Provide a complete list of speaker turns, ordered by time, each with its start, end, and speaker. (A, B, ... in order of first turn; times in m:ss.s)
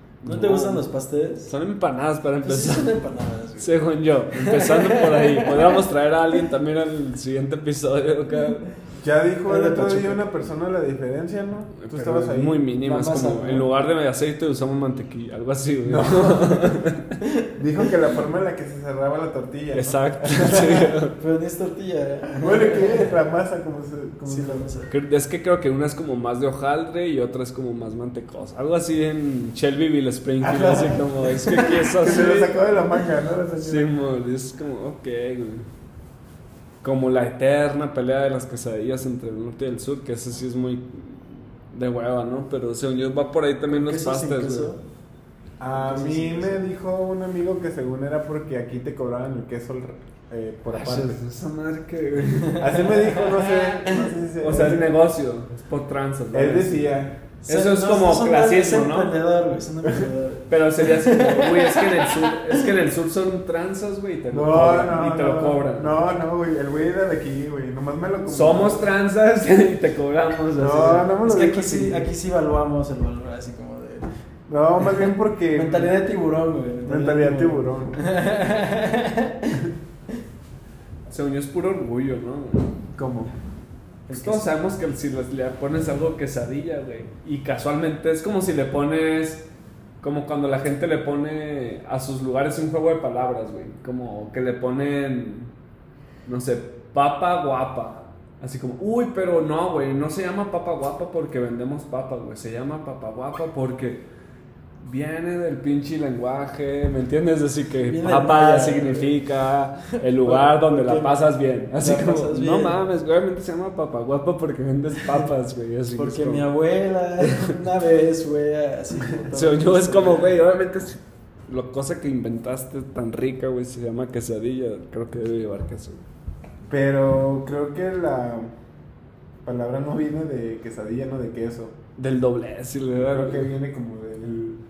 0:00.2-0:00.9 A
0:00.2-0:01.5 B
0:01.4-0:03.0 A
0:02.4-0:05.8 B
0:03.6-0:08.6 A
0:09.0-0:12.6 C
0:09.4-0:10.3 B
0:11.8-0:17.1 A
0:12.8-0:13.7 B
0:15.8-0:16.8 C
0:17.6-0:20.9 C
0:19.7-0:21.2 A
0:21.2-0:23.1 B
0:22.3-0:24.7 C
0:24.2-0:24.9 B
0:24.9-0:32.5 A
0:30.4-0:33.9 C
0:33.6-0:35.7 A
0:36.8-0:44.8 A
0:43.7-0:44.8 B
0:45.6-0:51.2 C
0:45.7-0:46.6 B
0:50.7-0:52.9 A
0:52.5-0:55.0 C
0:54.4-0:59.2 A
0:56.3-0:57.2 C
0:57.4-1:02.6 B
1:00.5-1:06.0 A
1:04.3-1:08.9 C
1:08.2-1:11.1 A
1:10.6-1:12.1 C
1:11.2-1:14.1 B
1:14.5-1:16.0 C
1:15.5-1:19.6 B
1:16.8-1:18.0 C
1:21.1-1:22.8 A
1:22.9-1:23.3 C
1:24.1-1:24.5 B
1:24.1-1:29.4 A
1:30.0-1:35.5 A
1:36.2-1:44.0 A
1:44.8-1:56.5 A
1:47.8-1:49.2 B
1:50.2-1:51.2 B
1:51.7-1:52.8 B
1:55.9-2:00.3 B
1:59.3-2:06.0 A
2:06.7-2:08.5 C
2:09.4-2:11.8 C
2:12.0-2:13.5 A
2:13.0-2:14.6 C